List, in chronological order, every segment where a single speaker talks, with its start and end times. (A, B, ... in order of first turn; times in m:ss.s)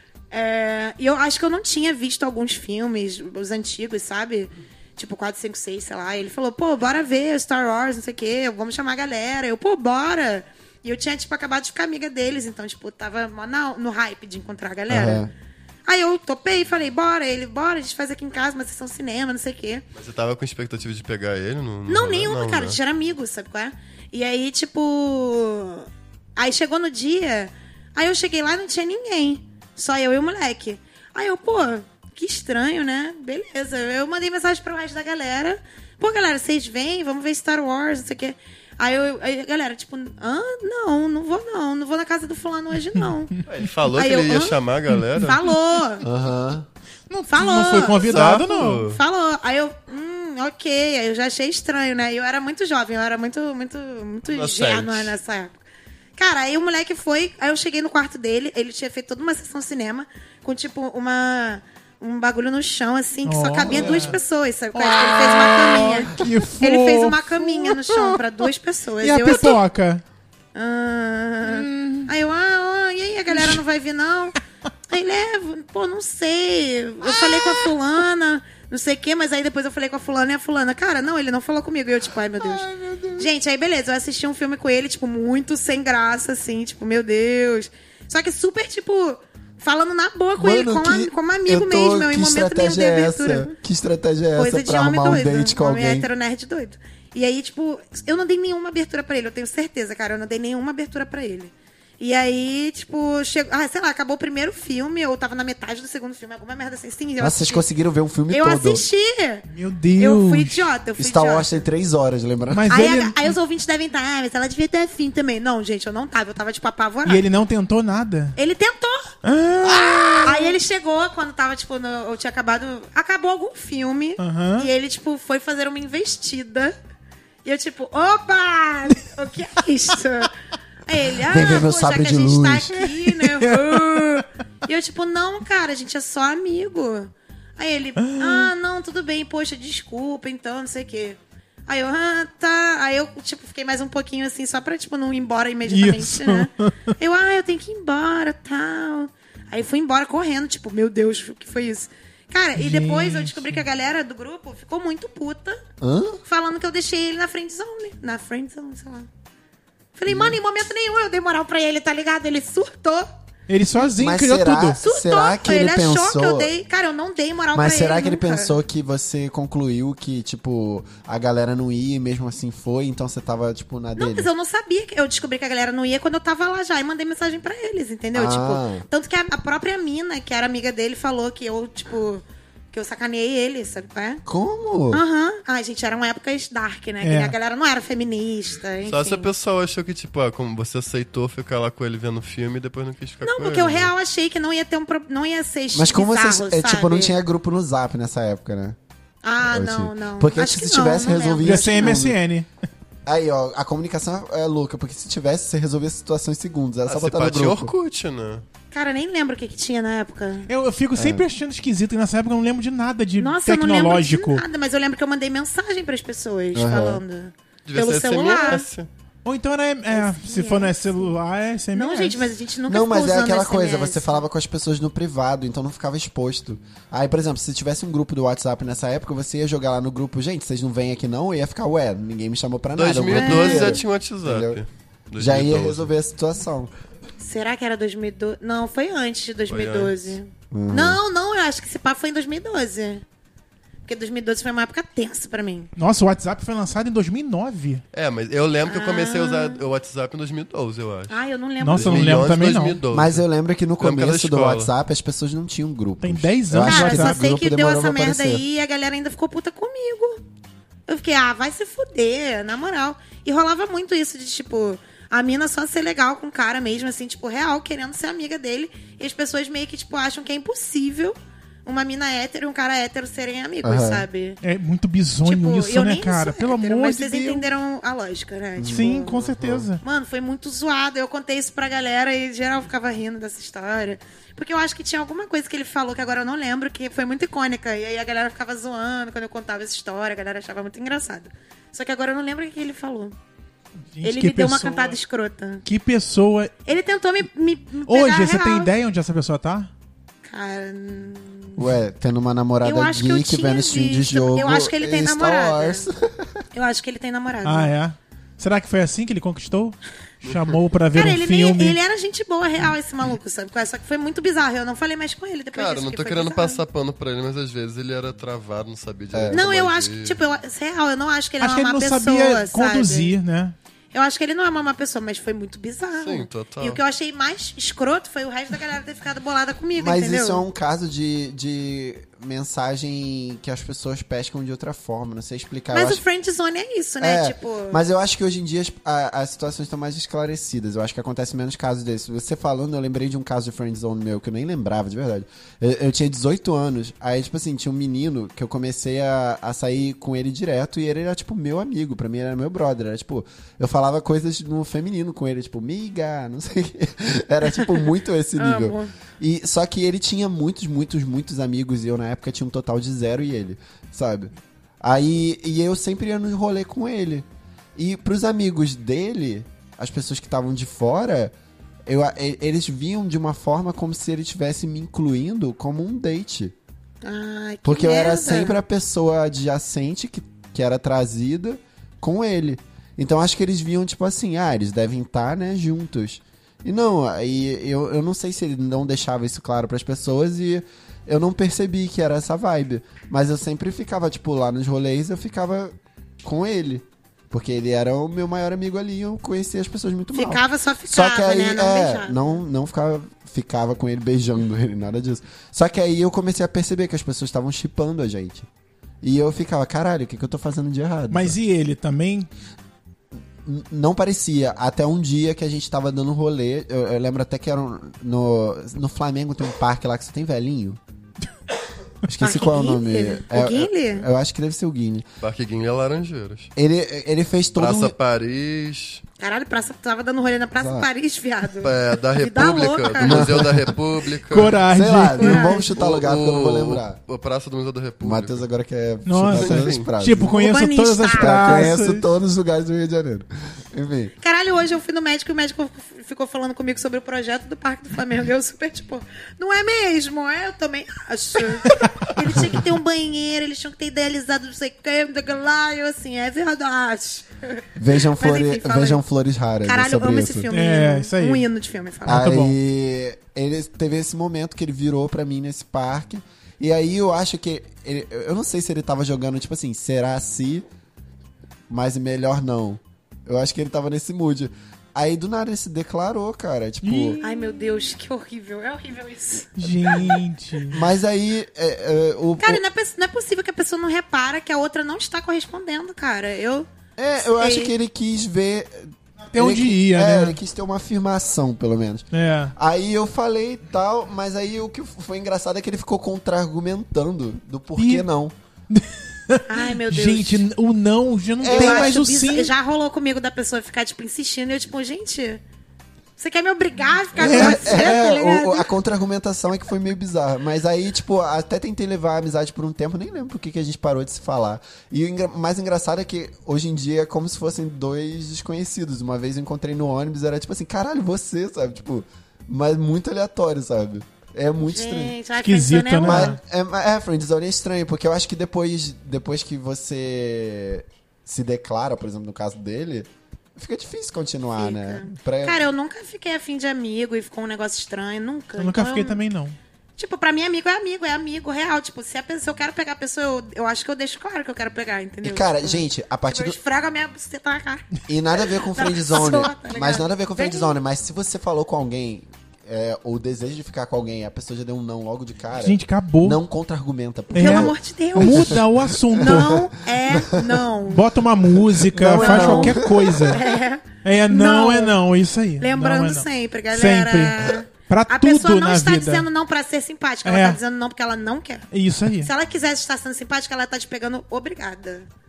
0:00.3-0:15.3 A
0:14.9-0:15.3 B
0:15.9-0:19.8 A
0:19.9-0:22.8 C
0:21.9-0:43.4 A
0:43.5-0:45.4 C
0:43.9-0:44.6 A
0:45.2-0:46.0 A
0:46.0-0:46.7 B
0:47.1-0:48.8 D
0:47.3-0:55.6 A
0:47.7-0:49.0 C
0:54.3-0:55.1 C
0:56.2-1:09.6 A
1:03.2-1:04.2 D
1:04.7-1:08.4 D
1:09.0-1:10.0 D
1:10.5-1:14.4 A
1:11.4-1:12.1 D
1:13.3-1:13.6 D
1:14.9-1:22.7 A
1:17.0-1:17.7 D
1:22.4-1:23.3 D
1:23.2-1:33.5 A
1:30.4-1:36.1 B
1:34.3-1:47.6 A
1:47.2-1:48.8 B
1:48.3-1:49.4 A
1:49.5-1:50.7 D
1:50.0-1:51.6 A
1:51.0-1:52.7 B
1:52.5-1:53.3 D
1:52.7-1:57.2 A
1:57.0-1:58.4 D
1:58.4-1:59.1 A
1:59.2-2:00.5 D
1:59.8-2:00.1 B
2:00.2-2:06.8 A
2:04.2-2:04.7 D
2:07.4-2:10.3 A
2:10.8-2:35.6 A
2:11.2-2:12.8 B
2:13.0-2:14.2 D
2:18.0-2:18.5 D
2:25.6-2:26.9 D
2:32.5-2:33.6 D
2:35.8-2:36.2 B
2:36.2-2:39.1 A
2:40.0-2:43.1 A
2:40.1-2:40.4 B
2:43.5-2:44.8 D
2:43.9-2:46.5 B
2:44.8-2:48.5 A
2:47.5-2:54.3 B
2:54.0-3:04.2 A
2:58.1-2:58.8 B
3:04.2-3:05.0 B
3:04.9-3:09.3 A
3:07.0-3:07.3 D
3:08.8-3:13.9 C
3:13.2-3:17.1 A
3:15.7-3:18.8 B
3:19.2-3:22.0 A
3:19.4-3:22.2 B
3:21.4-3:22.5 D
3:23.0-3:27.7 B
3:26.9-3:28.4 C
3:28.7-3:30.5 A
3:30.5-3:34.4 D
3:30.9-3:31.2 B
3:33.2-3:38.6 A
3:36.5-3:37.0 B
3:37.6-3:38.9 C
3:39.2-3:42.2 D
3:39.9-3:41.1 A
3:41.7-3:44.2 A
3:42.6-3:54.6 B
3:52.8-3:55.9 C
3:53.1-3:53.8 A
3:55.2-3:56.7 B
3:57.2-4:03.0 A
3:59.5-4:00.2 C
4:00.5-4:01.0 B
4:03.8-4:05.7 A
4:05.8-4:07.8 D
4:07.9-4:13.2 C
4:08.7-4:09.6 A
4:11.1-4:12.3 A
4:11.6-4:12.8 D
4:12.9-4:18.4 B
4:13.8-4:14.7 C
4:16.0-4:17.2 D
4:16.6-4:20.2 A
4:20.9-4:34.4 A
4:33.6-4:34.0 B
4:34.4-4:37.4 D
4:35.2-4:39.2 A
4:38.6-4:39.0 B
4:38.6-4:39.8 D
4:39.2-4:39.7 C
4:39.8-4:53.2 A
4:53.9-4:55.0 D
4:54.0-4:55.6 A
4:55.6-4:56.5 D
4:56.6-4:58.7 A
4:57.8-4:59.7 D
5:00.2-5:01.7 A
5:01.6-5:06.4 B
5:02.6-5:05.8 A
5:06.5-5:07.7 A
5:07.4-5:11.8 D
5:10.2-5:10.6 C
5:10.9-5:16.6 A
5:15.5-5:20.2 C
5:19.1-5:19.4 B
5:19.3-5:23.2 A
5:21.4-5:23.6 D
5:23.9-5:30.4 A
5:25.9-5:26.8 C
5:29.8-5:36.0 B
5:35.7-5:37.8 A
5:37.0-6:07.2 B
5:58.4-5:58.9 A
6:07.8-6:11.3 B
6:11.8-6:16.5 B
6:17.0-6:18.6 A
6:17.6-6:48.5 B
6:40.1-6:42.3 A
6:49.0-6:51.3 B
6:51.1-6:52.3 D
6:53.4-7:00.8 B
7:02.0-7:05.1 B
7:02.2-7:04.1 A
7:05.2-7:06.5 C
7:06.6-7:07.9 B
7:07.6-7:09.0 C
7:09.2-7:13.4 A
7:10.6-7:10.9 B
7:11.6-7:14.6 C
7:13.0-7:13.7 B
7:14.3-7:15.6 D
7:14.7-7:17.0 B
7:15.2-7:15.7 A
7:15.7-7:18.4 C
7:18.0-7:20.3 B
7:19.0-7:22.0 D
7:19.3-7:19.9 C
7:20.2-7:21.7 A
7:21.1-7:24.1 B
7:24.2-7:39.0 A
7:31.6-7:31.9 D
7:37.8-7:40.5 B
7:39.6-7:42.3 A
7:40.5-7:41.5 D
7:42.0-7:50.6 B
7:42.1-7:42.6 D
7:51.7-7:57.2 B
7:56.8-7:57.4 D
7:57.2-8:00.2 A
7:59.6-8:00.8 D
8:00.7-8:02.6 B
8:02.4-8:06.7 A
8:07.0-8:18.3 B
8:07.2-8:07.7 A
8:09.2-8:10.4 D
8:12.1-8:12.5 D
8:17.8-8:18.1 D
8:18.7-8:22.5 D
8:19.5-8:20.4 A
8:21.4-8:22.0 B
8:21.4-8:25.4 A
8:26.2-8:28.7 A
8:27.2-8:45.2 B
8:27.2-8:27.9 D
8:44.6-8:46.3 A
8:45.4-8:46.4 D
8:46.0-8:55.6 B
8:54.6-8:59.2 A
8:58.6-8:59.6 D
9:00.0-9:10.7 A
9:05.2-9:06.6 B
9:08.1-9:20.6 B
9:15.6-9:16.4 D
9:17.3-9:18.6 A
9:17.3-9:19.7 D
9:19.2-9:21.1 A
9:20.8-9:23.4 D
9:21.8-9:23.5 B
9:22.1-9:25.0 A
9:24.0-9:29.3 D
9:25.6-9:31.7 A
9:30.2-9:30.6 D
9:31.7-9:32.3 D
9:32.2-9:35.1 A